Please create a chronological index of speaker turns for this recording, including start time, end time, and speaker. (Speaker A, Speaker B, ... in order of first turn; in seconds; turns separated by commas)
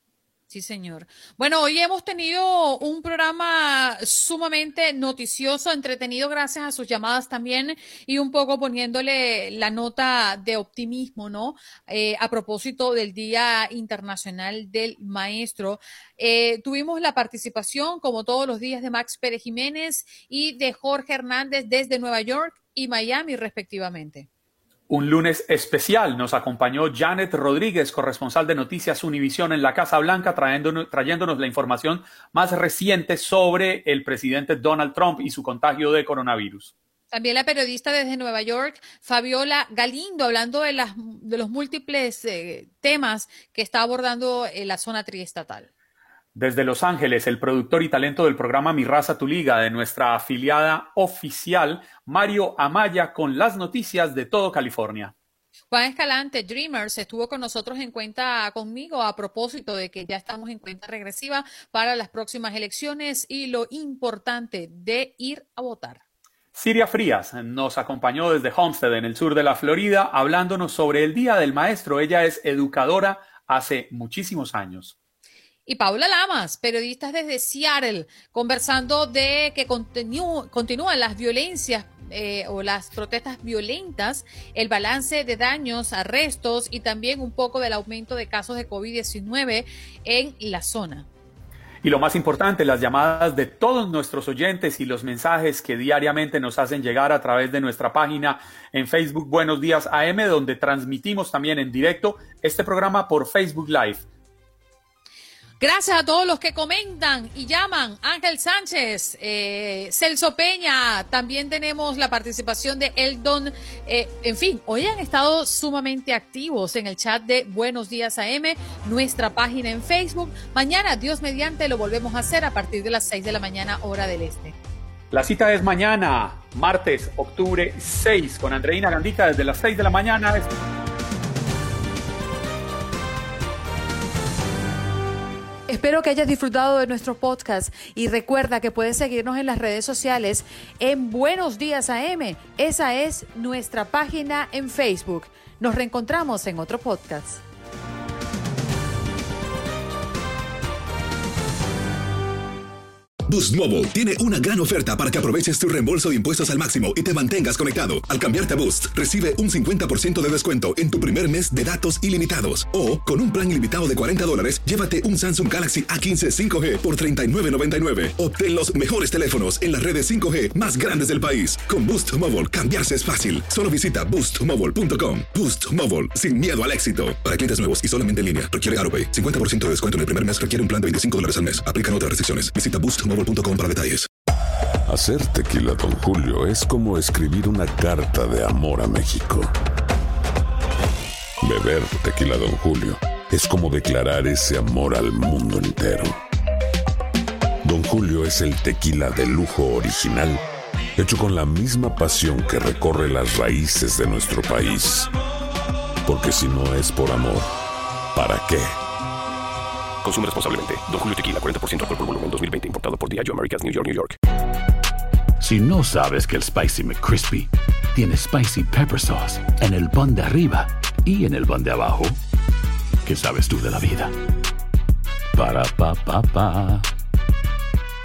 Speaker A: 0.5-24.3, Speaker B: 24.9-36.7, Speaker A: 37.1-45.7, Speaker B: 46.3-55.1, Speaker A: 55.7-66.0, Speaker B: 66.5-74.9, Speaker A: 75.7-91.0, Speaker B: 91.8-104.0, Speaker A: 105.6-124.5, Speaker B: 125.1-130.5, Speaker A: 135.7-147.4, Speaker C: 153.3-184.1, Speaker D: 184.9-189.5, Speaker D: 191.4-196.2, Speaker D: 197.6-200.4, Speaker D: 201.0-205.1, Speaker D: 206.0-207.5, Speaker D: 208.1-208.8, Speaker E: 210.0-214.2, Speaker F: 215.4-222.1, Speaker F: 223.0-224.1, Speaker F: 225.3-226.8